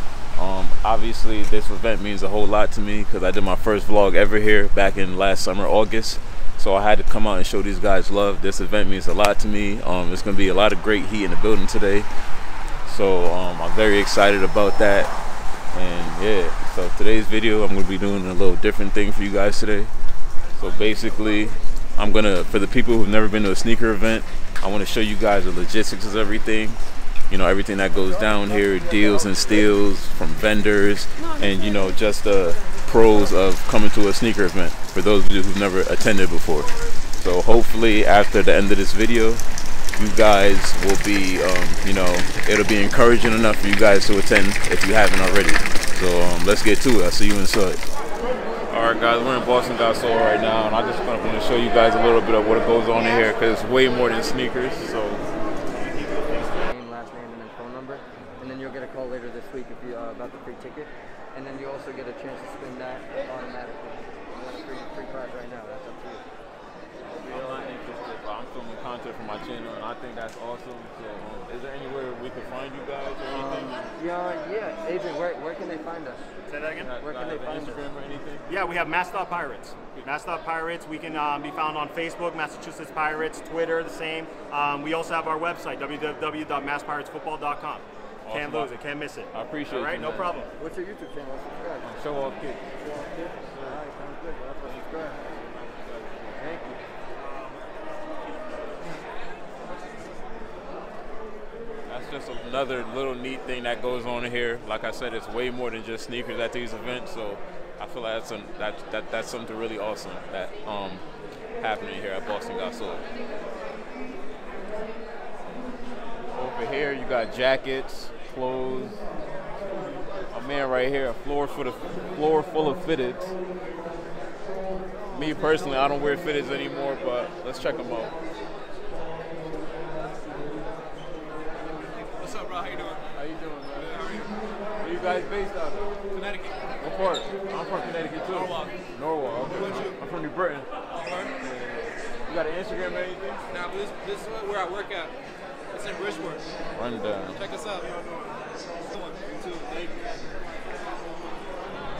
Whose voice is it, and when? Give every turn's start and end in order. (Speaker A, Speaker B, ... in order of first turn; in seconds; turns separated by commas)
Speaker A: 0.3-12.1, Speaker A: 12.8-15.1, Speaker A: 15.7-19.9, Speaker A: 20.6-39.4, Speaker A: 40.0-47.8, Speaker A: 48.7-55.2, Speaker B: 56.6-66.2, Speaker A: 67.1-73.9, Speaker B: 67.1-67.7, Speaker B: 73.3-76.3, Speaker C: 76.5-76.9, Speaker A: 76.8-78.4, Speaker B: 76.9-77.8, Speaker C: 78.5-90.5, Speaker A: 88.2-88.7, Speaker A: 89.3-90.3, Speaker B: 90.5-91.9, Speaker A: 91.8-92.8, Speaker B: 92.9-95.3, Speaker A: 93.4-93.8, Speaker A: 95.4-96.4, Speaker B: 96.3-96.8, Speaker C: 97.2-97.6, Speaker A: 101.9-111.0, Speaker A: 111.6-113.0, Speaker A: 116.3-119.0, Speaker A: 120.3-123.3, Speaker A: 125.1-128.1, Speaker D: 132.2-133.0, Speaker A: 133.1-134.0, Speaker D: 133.8-134.2, Speaker A: 134.8-135.8, Speaker D: 136.1-136.6, Speaker A: 136.8-140.7, Speaker D: 138.4-138.7, Speaker D: 140.9-141.3, Speaker A: 142.3-143.4, Speaker D: 143.5-145.1, Speaker D: 145.7-146.4, Speaker A: 146.7-147.4, Speaker D: 147.3-147.9, Speaker D: 149.0-149.9